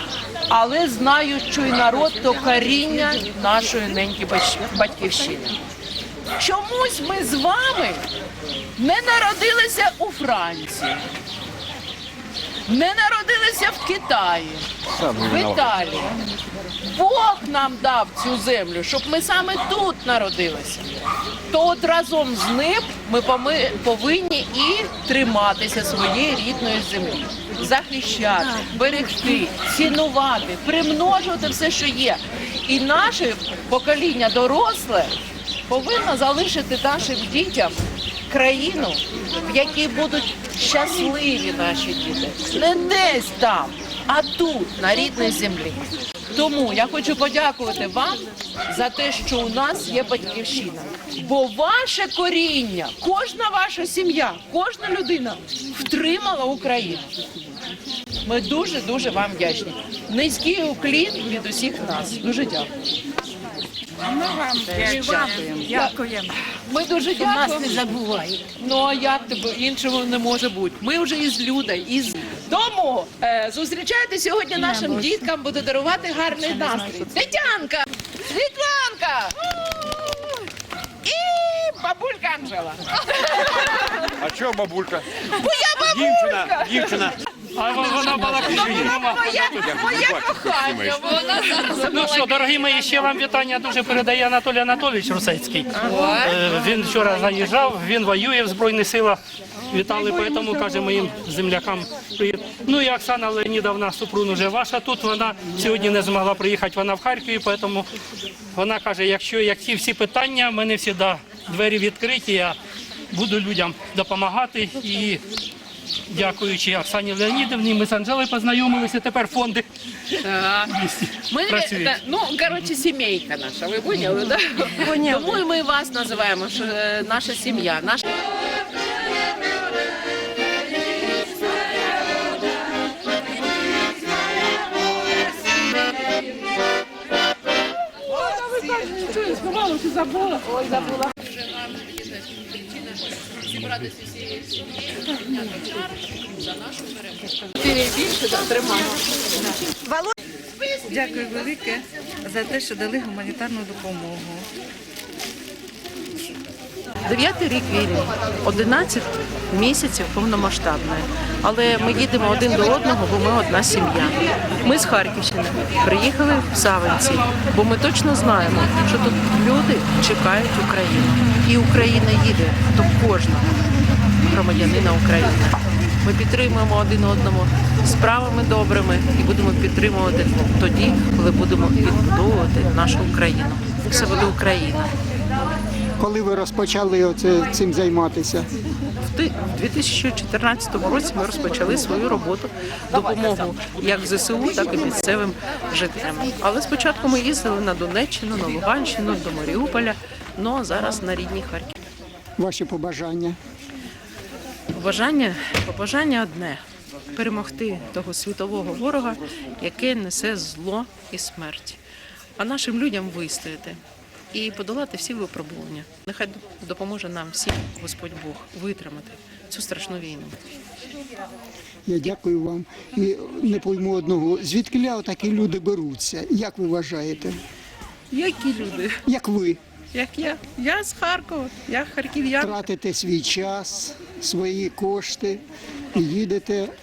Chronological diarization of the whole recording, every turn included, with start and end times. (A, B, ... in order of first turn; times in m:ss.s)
0:00.5-0:05.6 A
0:06.4-0:08.0 A
0:08.8-0:11.0 A
0:12.7-0:16.1 A
0:15.1-0:15.4 B
0:16.8-0:20.9 A
0:21.5-0:35.1 A
0:35.7-0:45.8 A
0:46.3-0:57.1 A
0:58.2-1:02.7 A
1:04.2-1:06.2 C
1:04.7-1:06.0 A
1:06.7-1:07.9 A
1:07.4-1:08.4 C
1:08.6-1:20.3 A
1:21.0-1:24.1 A
1:24.2-1:25.0 B
1:25.2-1:27.2 A
1:25.9-1:27.2 B
1:27.6-1:29.4 D
1:27.9-1:33.0 A
1:28.5-1:28.9 B
1:29.6-1:31.0 B
1:31.3-1:47.9 D
1:35.7-1:36.4 A
1:48.6-1:52.6 D
1:53.1-1:55.2 D
1:56.1-1:59.6 D
2:00.2-2:08.1 A
2:00.7-2:01.9 D
2:04.9-2:05.4 C
2:18.0-2:29.2 A
2:30.6-2:31.8 A
2:30.9-2:31.7 C
2:32.2-2:34.5 C
2:37.0-2:53.5 A
2:54.2-3:04.8 A
3:06.0-3:08.5 E
3:09.1-3:21.8 A
3:22.4-3:23.4 E
3:24.7-3:26.6 A
3:27.1-3:31.8 A
3:32.4-3:33.8 A
3:34.3-3:40.4 A
3:41.9-3:47.4 E
3:48.1-3:49.0 A
3:49.1-3:49.6 E
3:49.9-3:52.7 A
3:52.4-3:55.4 E
3:55.9-3:56.7 E